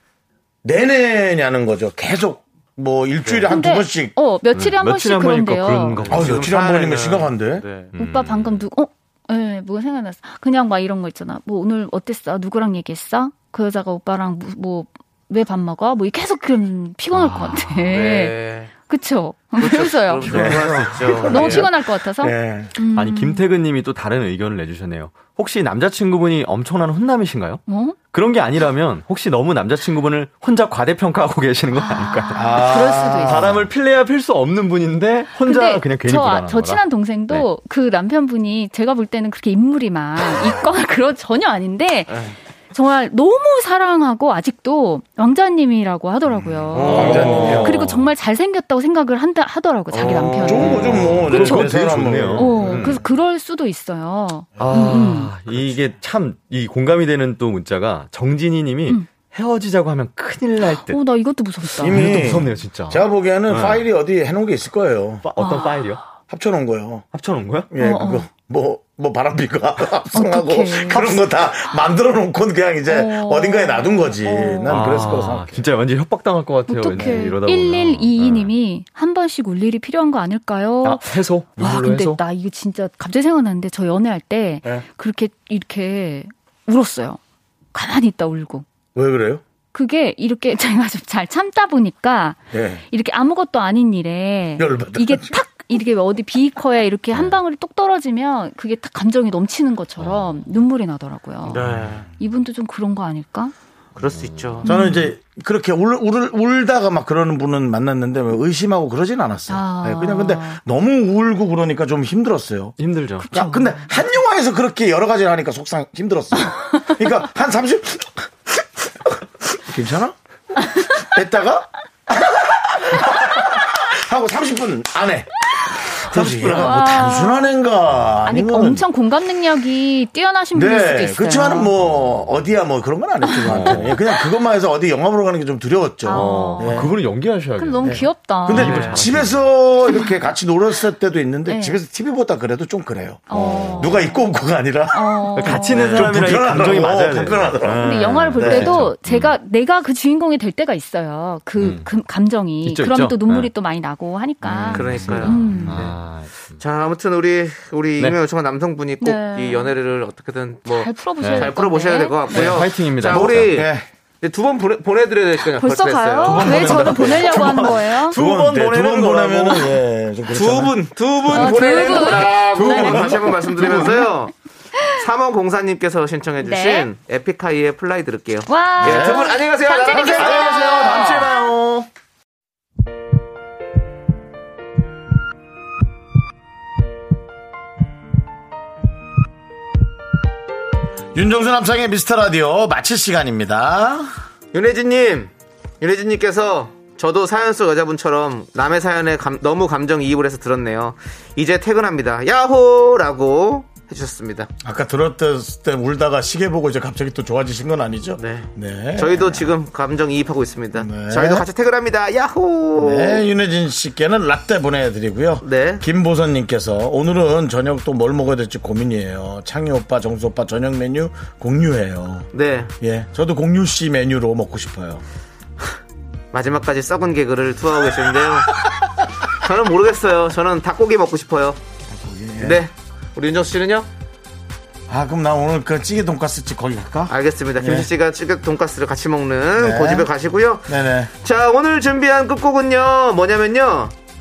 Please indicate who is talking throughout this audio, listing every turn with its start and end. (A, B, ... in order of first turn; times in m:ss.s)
0:00.6-0:04.1 A
0:03.2-0:03.5 B
0:03.5-0:06.0 C
0:04.5-0:06.4 D
0:06.0-0:07.9 B
0:06.1-0:07.6 A
0:07.9-0:08.7 D
0:08.0-0:23.4 C
0:17.1-0:18.0 D
0:17.9-0:18.7 B
0:19.6-0:21.7 B
0:20.2-0:22.7 A
0:22.9-0:37.5 D
0:27.7-0:28.0 C
0:31.7-0:33.6 C
0:32.3-0:33.7 A
0:35.4-0:42.2 C
0:42.1-0:42.4 B
0:42.7-0:55.3 C
0:46.6-0:47.8 A
0:46.7-0:48.1 D
0:46.8-0:47.7 B
0:49.9-0:50.7 B
0:50.4-0:52.9 A
0:50.5-0:53.0 D
0:54.6-0:55.9 A
0:54.6-1:01.0 D
1:00.6-1:02.4 C
1:01.8-1:03.8 D
1:01.8-1:05.2 A
1:05.2-1:06.0 D
1:05.4-1:05.9 C
1:06.3-1:07.0 A
1:07.1-1:07.7 D
1:07.7-1:15.7 A
1:07.8-1:08.3 C
1:10.1-1:11.2 C
1:12.8-1:15.0 C
1:14.7-1:18.5 D
1:16.7-1:27.2 C
1:17.0-1:17.2 A
1:20.8-1:22.2 D
1:27.7-1:28.6 C
1:28.9-1:29.4 A
1:29.7-1:43.5 C
1:32.5-1:32.8 A
1:34.6-1:35.4 A
1:37.1-1:37.4 D
1:40.0-1:40.4 D
1:41.4-1:42.1 B
1:44.0-1:44.6 B
1:44.1-1:44.9 D
1:44.6-1:45.1 C
1:44.6-1:52.8 A
1:49.5-1:50.6 C
1:52.8-1:53.3 D
1:53.2-1:54.0 C
1:53.3-2:00.1 A
2:00.9-2:05.3 A
2:05.9-2:08.8 A
2:06.1-2:06.9 D
2:06.5-2:07.5 C
2:08.2-2:11.7 C
2:10.5-2:16.9 A
2:13.2-2:13.8 C
2:13.5-2:14.0 D
2:16.0-2:17.0 C
2:16.1-2:19.5 D
2:17.6-2:18.8 C
2:17.8-2:28.8 A
2:18.6-2:19.0 B
2:21.4-2:21.8 C
2:23.3-2:24.3 C
2:23.3-2:24.1 D
2:24.9-2:26.2 C
2:25.3-2:29.4 D
2:27.8-2:35.9 C
2:31.6-2:31.9 D
2:32.6-2:33.5 D
2:34.4-2:36.6 D
2:34.7-2:36.0 B
2:36.6-2:46.9 B
2:39.0-2:39.7 C
2:40.6-2:42.6 C
2:41.2-2:41.6 D
2:42.3-2:43.6 D
2:43.0-2:43.9 A
2:45.5-2:48.2 C
2:46.2-2:53.2 A
2:46.8-2:49.7 D
2:50.3-2:54.3 B
2:51.3-2:53.9 C
2:51.4-2:54.0 D
2:54.9-3:01.2 B
2:56.4-2:56.9 C
2:58.5-3:01.3 C
2:58.8-2:59.4 A
2:59.9-3:01.9 D
3:11.1-3:14.1 A
3:14.5-3:24.5 B
3:24.6-3:29.5 A
3:28.2-3:33.2 B
3:30.8-3:31.4 A
3:32.8-3:42.3 A
3:35.4-3:35.8 B
3:42.3-3:42.7 B
3:42.8-3:45.0 A
3:46.3-3:48.5 B
3:49.3-3:51.6 B
3:51.9-3:52.6 A
3:52.4-3:53.9 B
3:54.9-3:57.9 A
3:57.1-4:03.9 B
3:59.6-4:00.1 A
4:00.7-4:01.1 A